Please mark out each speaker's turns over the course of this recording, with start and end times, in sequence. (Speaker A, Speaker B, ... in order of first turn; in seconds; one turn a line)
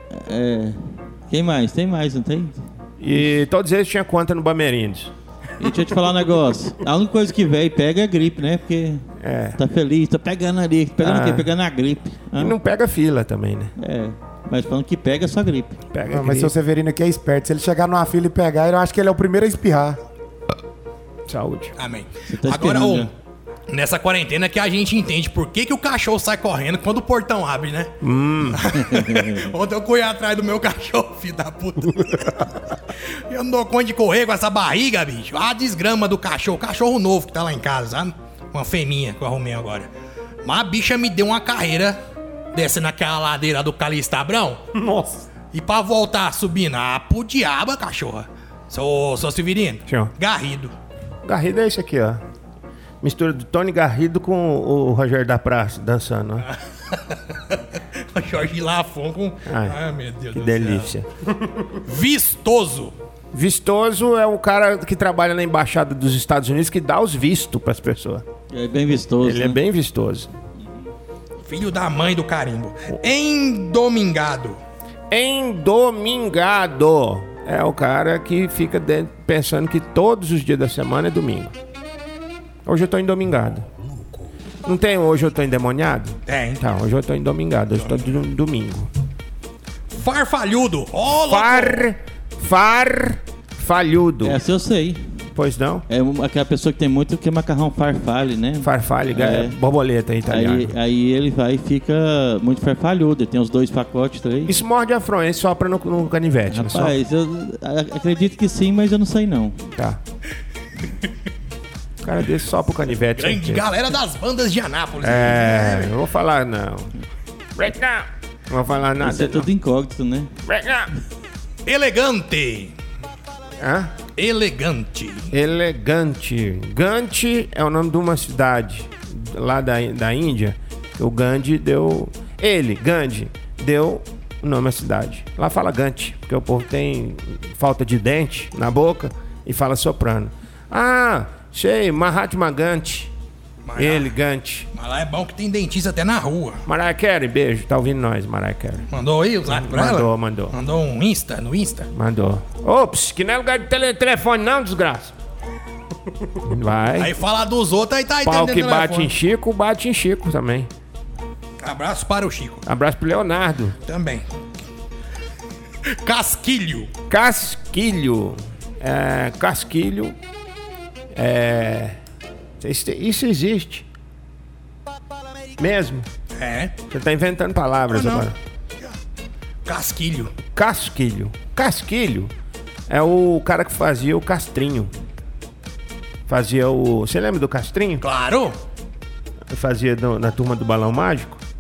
Speaker A: 0.2-2.6
Speaker B: 3.0-5.1
Speaker A: 5.6-9.0
Speaker B: 9.2-9.6
Speaker A: 9.6-12.6
Speaker B: 11.0-11.5
Speaker B: 12.4-13.7
Speaker A: 13.8-15.8
Speaker B: 15.9-16.6
Speaker C: 16.1-20.0
Speaker B: 21.3-21.7
Speaker D: 21.8-23.1
Speaker A: 22.3-23.1
Speaker D: 23.7-27.9
Speaker B: 28.0-28.7
Speaker D: 28.5-39.9
Speaker A: 28.9-29.4
Speaker D: 40.4-42.0
Speaker D: 42.5-44.6
Speaker B: 44.8-45.2
Speaker D: 45.5-50.7
Speaker B: 49.9-50.1
Speaker B: 51.2-52.2
Speaker B: 53.0-56.5
Speaker D: 56.9-60.9
Speaker B: 59.5-59.8
Speaker B: 60.3-61.1
Speaker D: 61.7-62.9
Speaker B: 63.3-68.2
Speaker A: 68.5-69.6
Speaker B: 69.2-70.3
Speaker D: 71.5-74.6
Speaker B: 75.1-81.5
Speaker B: 82.7-83.7
Speaker B: 84.7-88.9
Speaker D: 86.3-86.7
Speaker D: 87.8-88.1
Speaker D: 89.9-91.8
Speaker B: 91.2-94.4
Speaker A: 94.2-95.0
Speaker B: 95.3-95.8
Speaker A: 95.9-99.5
Speaker B: 98.6-100.7
Speaker A: 100.2-104.5
Speaker B: 104.5-107.0
Speaker A: 106.5-109.6
Speaker B: 112.0-113.7
Speaker D: 113.1-115.9
Speaker B: 115.0-116.9
Speaker B: 117.6-119.5
Speaker A: 119.0-120.3
Speaker B: 120.5-120.9
Speaker D: 121.7-122.7
Speaker B: 123.6-123.9
Speaker D: 124.2-125.3
Speaker B: 125.3-143.1
Speaker D: 143.7-144.2
Speaker B: 143.8-144.7
Speaker D: 144.7-146.6
Speaker B: 146.7-148.9
Speaker D: 148.9-151.9
Speaker B: 149.5-150.6
Speaker B: 151.9-155.1
Speaker B: 156.4-157.2
Speaker D: 157.0-159.1
Speaker B: 158.2-160.7
Speaker D: 161.6-162.6
Speaker B: 162.7-163.8
Speaker D: 163.9-164.2
Speaker D: 166.0-166.9
Speaker B: 167.1-170.2
Speaker B: 171.2-172.0
Speaker B: 172.6-173.9
Speaker B: 175.6-176.1
Speaker D: 176.4-176.7
Speaker B: 176.9-178.4
Speaker D: 177.9-178.3
Speaker D: 179.7-180.3
Speaker B: 180.5-182.3
Speaker B: 182.9-184.9
Speaker B: 186.3-188.0
Speaker D: 188.0-188.6
Speaker B: 189.5-191.4